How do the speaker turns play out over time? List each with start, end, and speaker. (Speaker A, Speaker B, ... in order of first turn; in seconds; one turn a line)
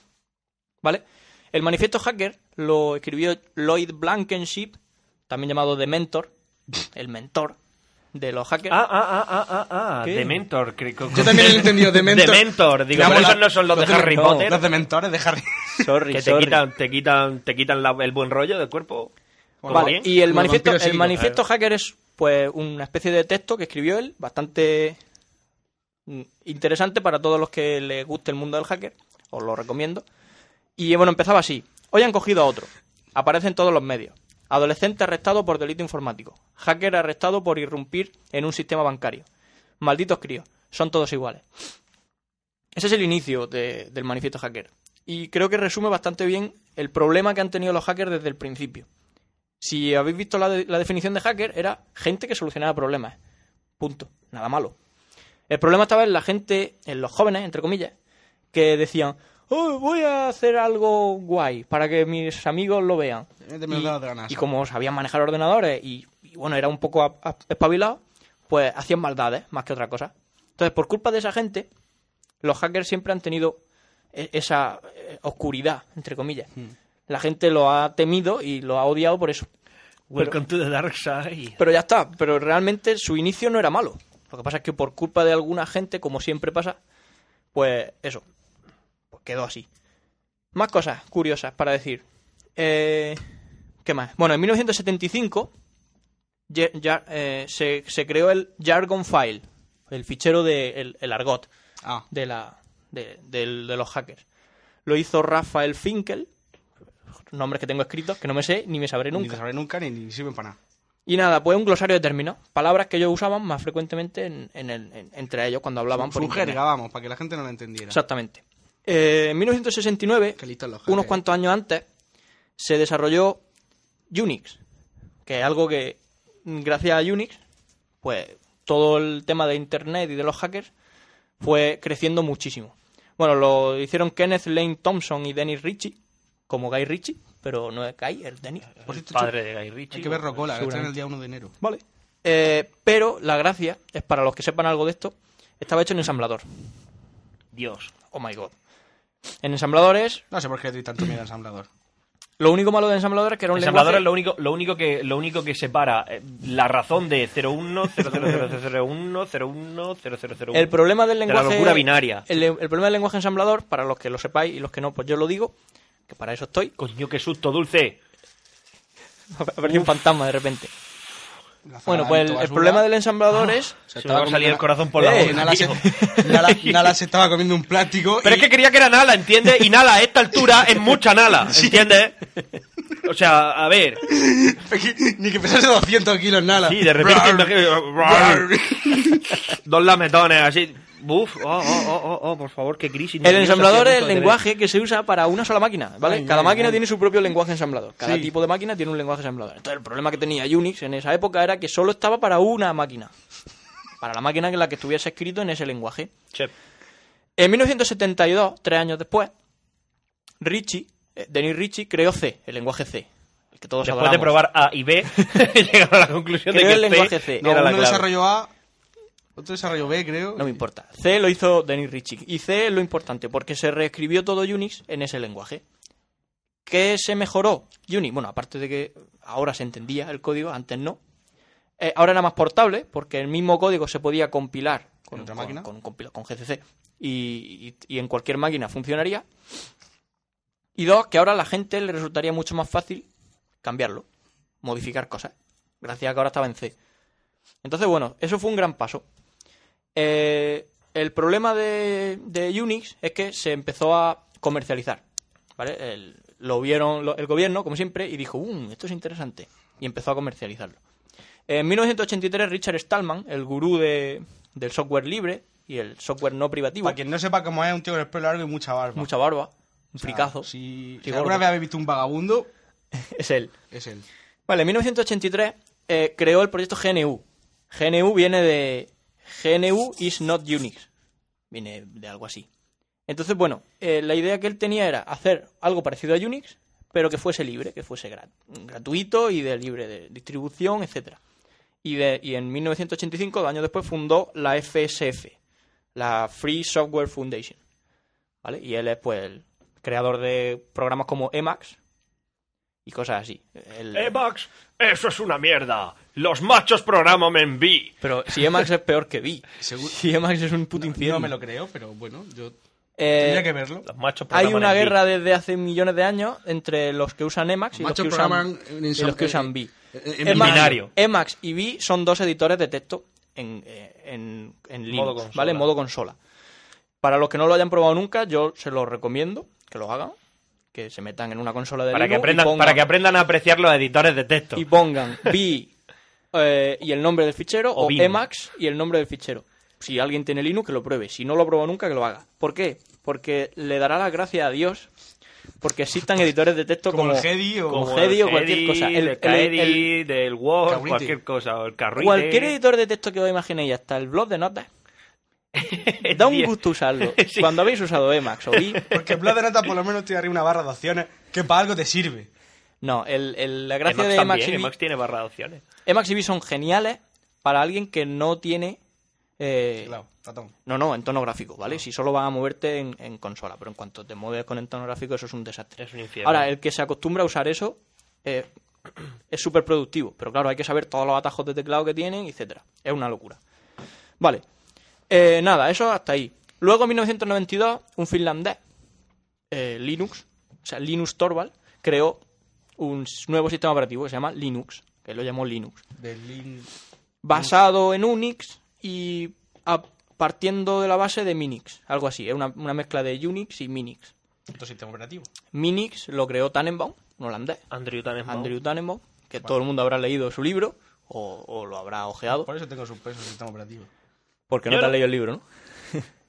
Speaker A: 0.8-4.8
Speaker A: 5.3-6.3
Speaker A: 6.9-7.6
Speaker A: 8.1-8.8
Speaker B: 8.7-14.6
Speaker A: 10.0-10.4
Speaker C: 11.1-15.9
Speaker A: 13.1-14.6
Speaker A: 15.8-16.6
Speaker B: 16.1-19.1
Speaker C: 19.6-21.4
Speaker B: 19.6-20.1
Speaker A: 19.7-25.0
Speaker A: 26.1-30.1
Speaker A: 30.8-39.3
Speaker A: 39.8-41.5
Speaker A: 42.8-48.9
Speaker A: 49.6-53.2
Speaker A: 53.8-54.8
Speaker A: 55.5-57.9
Speaker A: 58.5-71.7
Speaker C: 63.4-64.5
Speaker A: 72.4-73.6
Speaker A: 74.1-76.5
Speaker A: 77.1-79.5
Speaker B: 80.1-81.6
Speaker A: 81.6-86.8
Speaker A: 87.5-88.2
Speaker A: 89.1-89.7
Speaker A: 90.5-92.0
Speaker A: 92.6-93.2
Speaker A: 93.8-95.5
Speaker A: 96.5-101.5
Speaker A: 102.1-104.2
Speaker A: 104.9-106.3
Speaker A: 107.3-109.4
Speaker C: 109.1-110.6
Speaker A: 111.1-116.6
Speaker C: 115.9-118.0
Speaker A: 117.9-121.8
Speaker C: 120.4-121.2
Speaker A: 122.6-123.4
Speaker A: 124.1-124.6
Speaker A: 125.3-127.4
Speaker A: 128.0-130.7
Speaker A: 131.4-136.0
Speaker A: 136.5-138.7
Speaker B: 138.8-140.4
Speaker C: 138.9-139.3
Speaker C: 139.9-141.5
Speaker A: 140.6-140.9
Speaker A: 141.6-146.4
Speaker B: 147.5-147.9
Speaker A: 148.1-148.5
Speaker A: 149.4-150.2
Speaker C: 150.3-151.7
Speaker A: 152.4-154.1
Speaker B: 153.6-160.7
Speaker A: 160.5-165.5
Speaker B: 161.3-162.2
Speaker A: 166.1-166.7
Speaker B: 166.8-168.0
Speaker A: 169.4-170.7
Speaker B: 169.7-169.9
Speaker C: 171.7-172.9
Speaker A: 171.9-173.8
Speaker C: 173.9-178.5
Speaker B: 174.0-175.9
Speaker A: 175.0-176.5
Speaker B: 178.2-182.2
Speaker C: 181.4-182.0
Speaker B: 183.0-184.0
Speaker C: 184.0-189.4
Speaker B: 186.7-188.5
Speaker B: 189.5-194.4
Speaker A: 193.2-203.1
Speaker C: 196.0-196.8
Speaker C: 198.0-198.3
Speaker A: 204.0-206.1
Speaker A: 207.4-209.3
Speaker A: 210.4-214.4
Speaker B: 213.8-218.1
Speaker A: 216.5-217.7
Speaker C: 217.4-218.5
Speaker C: 219.4-220.6
Speaker A: 220.4-225.6
Speaker A: 226.7-231.0
Speaker A: 231.8-239.3
Speaker C: 235.1-235.7
Speaker A: 240.8-243.1
Speaker A: 243.6-244.1
Speaker A: 244.6-246.7
Speaker A: 247.6-249.0
Speaker A: 249.9-255.0
Speaker A: 255.6-260.8
Speaker A: 261.5-267.0
Speaker C: 266.8-269.1
Speaker A: 269.0-270.5
Speaker C: 270.0-272.5
Speaker A: 271.0-271.4
Speaker A: 273.0-273.5
Speaker C: 273.7-274.1
Speaker A: 274.5-280.9
Speaker A: 281.5-282.5
Speaker A: 283.1-291.2
Speaker A: 291.8-295.4
Speaker A: 295.9-297.6
Speaker A: 298.4-301.8
Speaker A: 302.9-304.1
Speaker B: 303.9-307.9
Speaker A: 308.0-311.3
Speaker C: 309.6-310.0
Speaker C: 310.8-312.6
Speaker A: 313.0-313.5
Speaker C: 313.1-313.9
Speaker B: 313.9-315.0
Speaker A: 314.3-319.7
Speaker C: 317.7-320.8
Speaker A: 320.2-326.2
Speaker B: 320.3-320.9
Speaker B: 324.9-325.7
Speaker A: 327.0-330.1
Speaker A: 330.7-332.8
Speaker B: 331.9-334.6
Speaker A: 334.6-335.7
Speaker A: 336.3-344.9
Speaker B: 337.8-338.2
Speaker A: 345.6-349.9
Speaker C: 346.9-347.9
Speaker B: 347.7-352.6
Speaker C: 350.7-351.2
Speaker A: 352.0-354.7
Speaker B: 355.5-357.8
Speaker A: 356.1-358.9
Speaker B: 358.5-359.0
Speaker C: 358.9-362.3
Speaker A: 362.8-364.7
Speaker B: 363.9-365.6
Speaker A: 365.9-368.8
Speaker A: 369.4-370.0
Speaker C: 369.8-370.5
Speaker A: 370.7-378.5
Speaker B: 375.8-376.5
Speaker A: 379.3-383.4
Speaker A: 385.1-388.6
Speaker A: 389.5-392.2
Speaker A: 392.8-395.8
Speaker C: 396.0-396.7
Speaker A: 397.2-404.1
Speaker C: 404.5-405.3
Speaker A: 405.5-407.6
Speaker B: 407.7-408.5
Speaker A: 408.3-412.5
Speaker C: 412.3-413.9
Speaker A: 414.5-416.1
Speaker B: 414.7-415.0